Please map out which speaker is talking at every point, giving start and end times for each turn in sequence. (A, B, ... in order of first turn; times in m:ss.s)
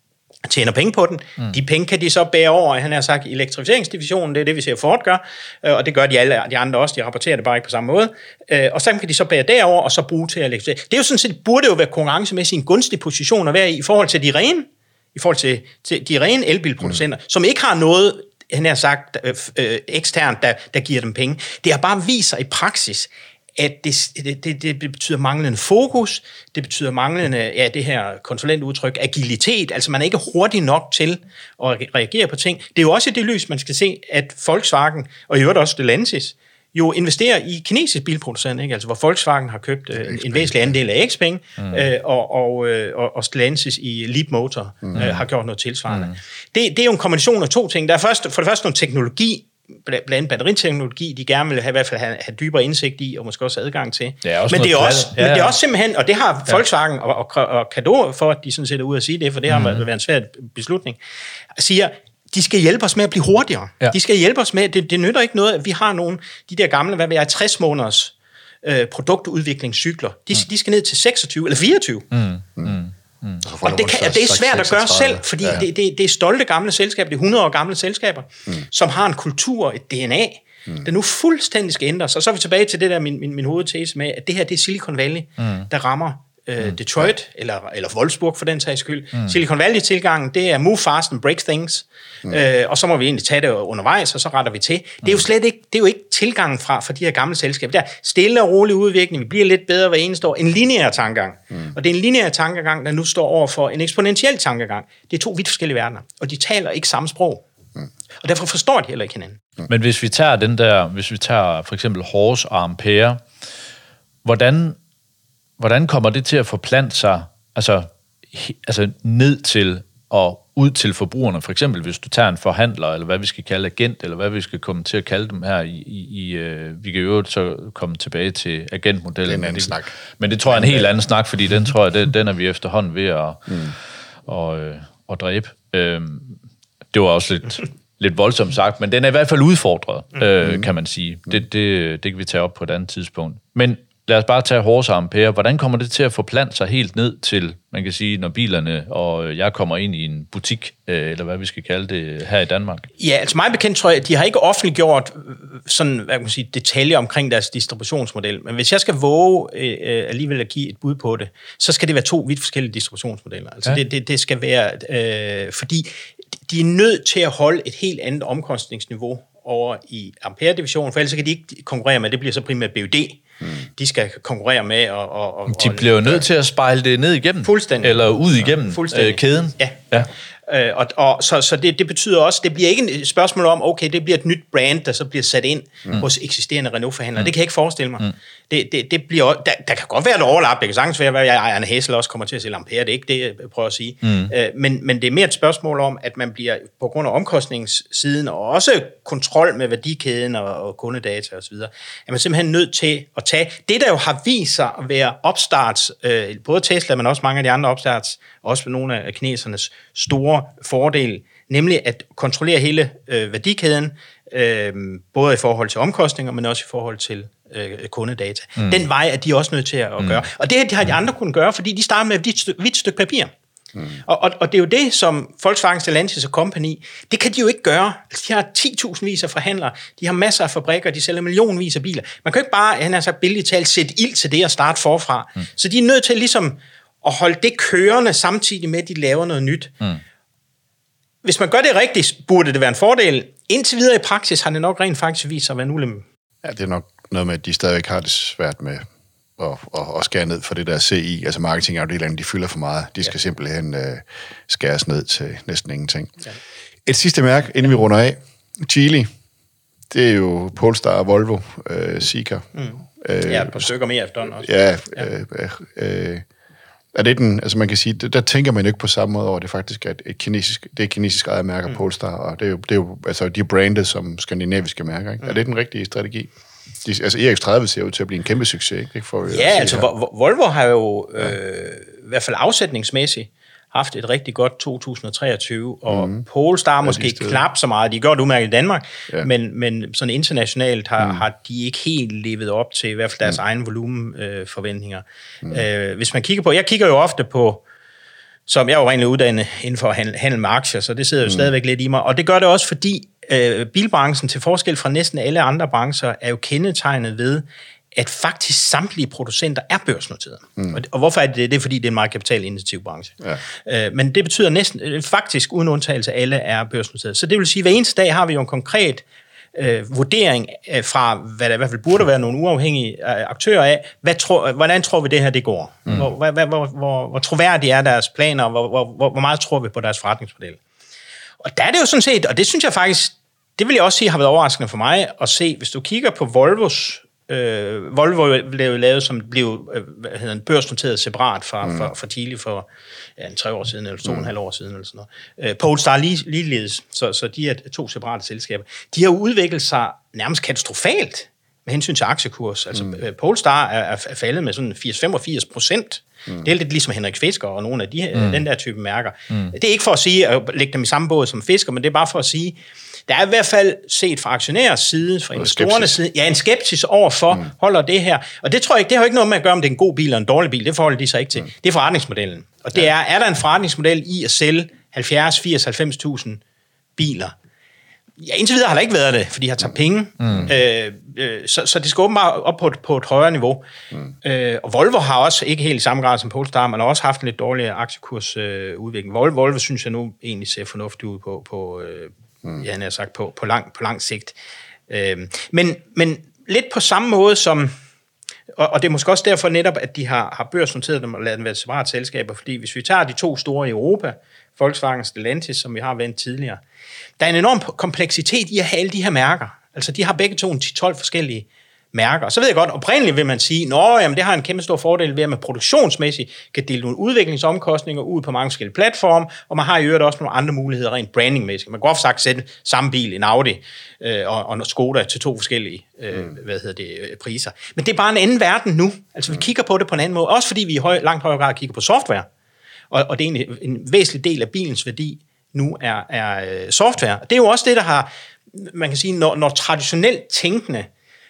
0:00.4-1:01.0 A
0:40.0-0:40.7 B
0:45.0-0:45.2 C
0:45.9-0:46.1 C
0:54.2-0:55.6 C
0:59.5-0:59.8 C
1:01.6-1:12.1 A
1:12.1-1:13.4 C
1:13.4-1:15.6 B
1:13.6-1:47.4 A
1:48.2-1:49.4 A
1:49.7-1:53.2 C
1:54.2-1:54.8 C
1:55.6-2:13.7 C
2:09.2-2:09.9 B
2:10.5-2:10.9 B
2:14.2-2:16.4 C
2:16.9-2:32.9 C
2:33.0-2:45.9 A
2:46.5-2:56.2 A
2:55.5-3:00.1 C
2:57.4-2:59.8 A
3:00.5-3:43.3 A
3:14.0-3:14.3 C
3:44.0-3:59.9 A
4:01.2-4:06.0 A
4:06.4-4:08.8 B
4:09.4-4:16.2 B
4:16.8-4:19.1 B
4:19.9-4:23.7 B
4:22.5-4:25.1 A
4:24.4-4:26.2 B
4:26.9-4:36.3 B
4:36.8-4:39.9 B
4:39.3-4:57.6 A
4:45.9-4:46.2 B
4:46.8-4:47.4 B
4:58.5-5:19.0 A
5:19.5-5:30.6 A
5:31.4-5:42.7 A
5:43.2-6:02.6 A
6:03.1-6:16.4 A
6:05.4-6:06.0 B
6:17.0-6:17.3 A
6:18.2-6:23.6 A
6:20.2-6:20.5 C
6:24.2-6:34.4 A
6:34.9-6:37.7 A
6:38.5-6:46.6 A
6:47.2-7:12.3 A
7:12.9-7:20.9 A